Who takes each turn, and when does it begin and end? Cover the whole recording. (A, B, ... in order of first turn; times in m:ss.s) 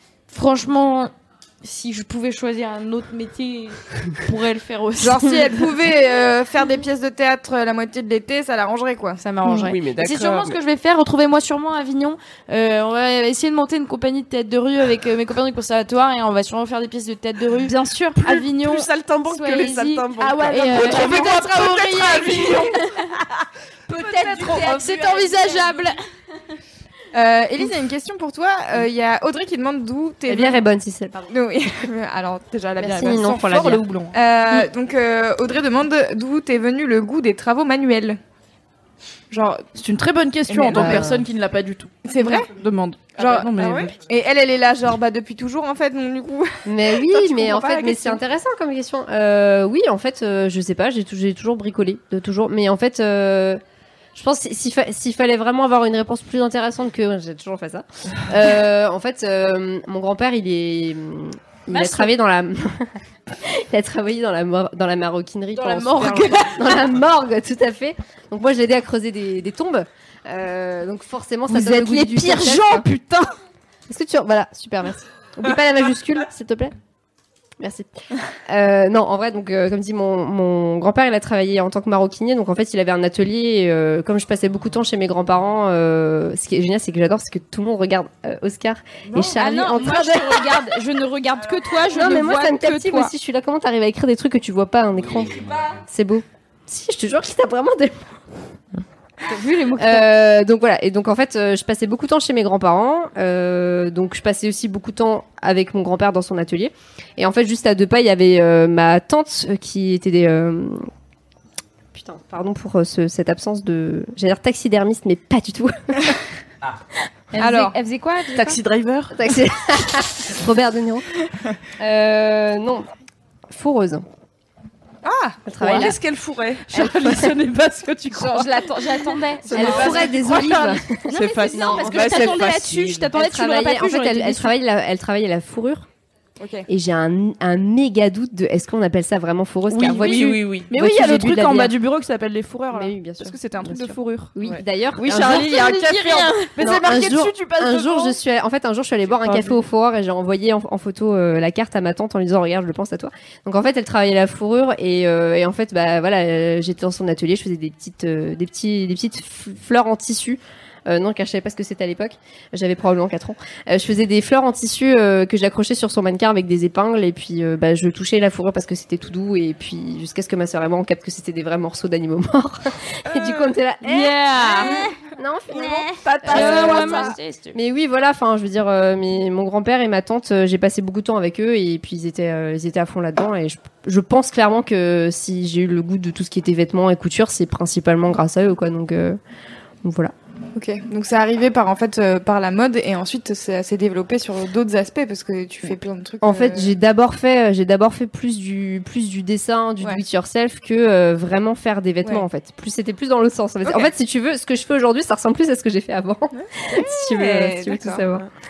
0:00.3-0:05.7 A
0:05.0-0:09.2 B
0:09.2-0:22.6 A
0:09.4-0:09.7 C
0:09.5-0:10.6 D
0:17.7-0:18.2 C
0:18.2-0:22.8 D
0:20.2-0:22.8 C
0:23.9-0:26.0 C
0:24.0-0:26.0 A
0:27.1-0:30.6 B
0:30.3-0:31.3 E
0:31.3-0:38.2 B
0:32.8-0:33.8 E
0:33.2-0:34.2 F
0:39.3-0:39.6 B
0:39.7-0:44.0 F
0:40.5-0:41.1 B
0:40.7-0:41.3 E
0:42.0-0:42.5 B
0:43.2-0:48.2 B
0:46.6-0:53.6 E
0:54.2-1:12.9 E
1:01.8-1:02.1 A
1:05.6-1:06.8 A
1:11.5-1:13.3 C
1:13.9-1:16.7 E
1:17.6-1:17.9 E
1:18.5-1:30.6 E
1:29.3-1:33.1 C
1:31.9-1:38.1 E
1:39.3-1:40.0 A
1:39.8-1:50.9 E
1:51.9-1:56.1 E
1:57.3-1:58.6 C
1:57.4-1:57.8 B
1:58.3-1:59.2 D
1:59.1-2:01.1 E
2:01.8-2:02.9 E
2:03.5-2:04.0 E
2:05.0-2:05.8 B
2:05.5-2:06.0 E
2:05.6-2:06.6 D
2:06.7-2:08.8 F
2:06.8-2:07.3 E
2:08.2-2:14.6 C
2:08.6-2:09.4 A
2:09.4-2:10.7 F
2:09.5-2:15.9 E
2:09.6-2:13.1 D
2:16.4-2:16.7 B
2:16.7-2:21.8 E
2:19.7-2:20.7 D
2:19.8-2:24.4 F
2:22.7-2:25.4 E
2:25.0-2:28.2 F
2:25.1-2:26.3 A
2:25.3-2:25.9 C
2:26.6-3:09.2 E
2:53.9-2:54.9 C
2:55.6-2:57.1 C
2:56.2-2:57.6 A
2:56.4-2:56.8 D
3:09.8-3:10.1 E
3:10.6-3:16.8 B
3:16.2-3:28.3 E
3:23.7-3:23.9 B
3:26.4-3:28.2 B